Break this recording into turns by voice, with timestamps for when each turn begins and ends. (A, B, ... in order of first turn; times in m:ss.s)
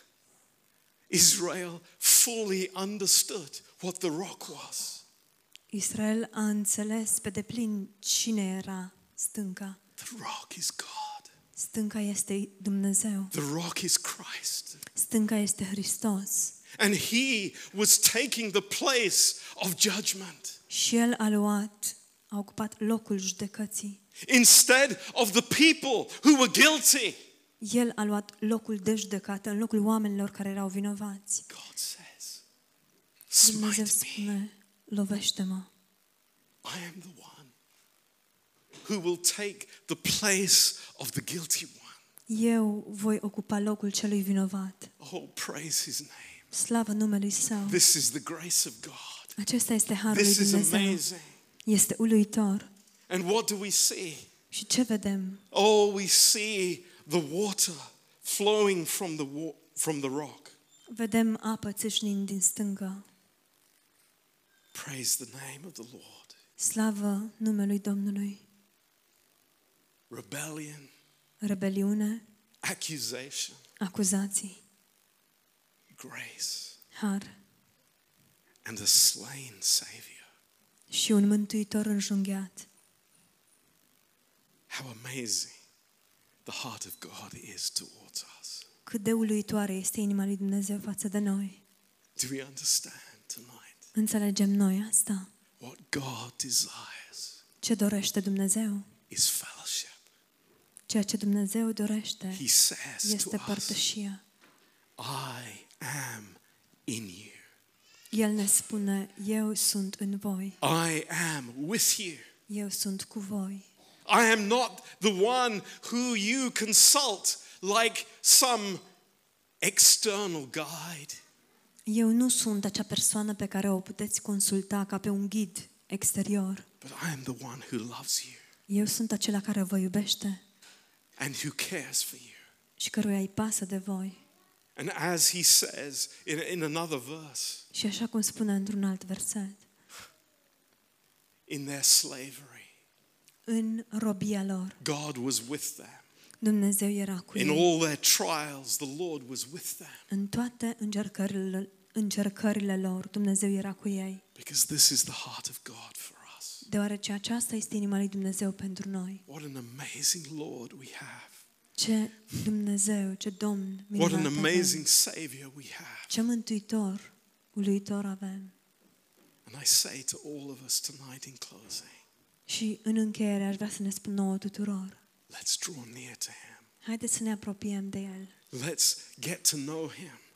0:01.1-0:05.0 A
0:05.7-0:09.8 B
0:10.0-0:11.3 A
0:11.6-0:13.3 B
0:13.3-0:14.8 A
0:14.9-0:16.5 B
0:16.8-0:20.6 A
0:20.7-0:24.0 B
0:24.2-0:27.2 A
0:27.6-0:31.4 B
0:31.5-0:32.4 A
0:33.3-0:34.4 A
0:33.4-0:35.7 B
0:36.6-0:37.5 A
0:38.8-0:42.0 A
0:42.3-0:44.9 B
0:45.0-0:46.4 A
0:46.5-0:47.8 B
0:47.6-0:49.3 A
0:49.4-0:51.0 B
0:50.1-0:51.3 A
0:51.6-0:52.7 B
0:53.1-0:54.3 A
0:54.5-0:55.4 B
0:55.5-1:00.6 A
1:00.9-1:03.1 B
1:04.7-1:06.4 A
1:06.6-1:08.4 B
1:10.1-1:10.9 A
1:11.4-1:12.2 B
1:12.6-1:13.6 A
1:13.8-1:14.6 B
1:15.9-1:16.8 A
1:16.9-1:17.4 B
1:18.6-1:20.2 A
1:20.9-1:22.7 B
1:24.7-1:25.5 A
1:26.4-1:28.6 A
1:28.8-1:31.6 B
1:32.2-1:33.8 A
1:33.9-1:35.3 B
1:35.6-1:37.4 A
1:37.6-1:38.9 B
1:39.1-1:40.0 A
1:40.9-1:42.4 B
1:42.3-1:43.8 A
1:43.0-1:44.2 B
1:45.0-1:47.4 A
1:48.1-1:50.6 B
1:50.6-1:52.3 A
1:52.5-1:53.7 B
1:54.0-1:58.8 A
1:59.6-2:01.2 A
2:01.8-2:06.6 B
2:06.8-2:08.4 A
2:08.7-2:10.4 B
2:11.2-2:12.4 A
2:12.8-2:14.2 B
2:14.8-2:17.6 A
2:17.7-2:19.6 B
2:21.5-2:22.7 A
2:23.4-2:24.8 B
2:24.8-2:26.0 A
2:26.4-2:27.7 B
2:27.3-2:30.0 A
2:30.1-2:34.2 B
2:34.3-2:36.6 A
2:36.6-2:39.2 B
2:39.3-2:41.4 A
2:41.8-2:44.8 B
2:43.9-2:46.1 A
2:46.1-2:48.5 B
2:49.4-2:52.0 A
2:52.5-2:55.0 B
2:55.3-2:56.6 A
2:56.8-2:58.3 B
2:58.5-3:00.2 A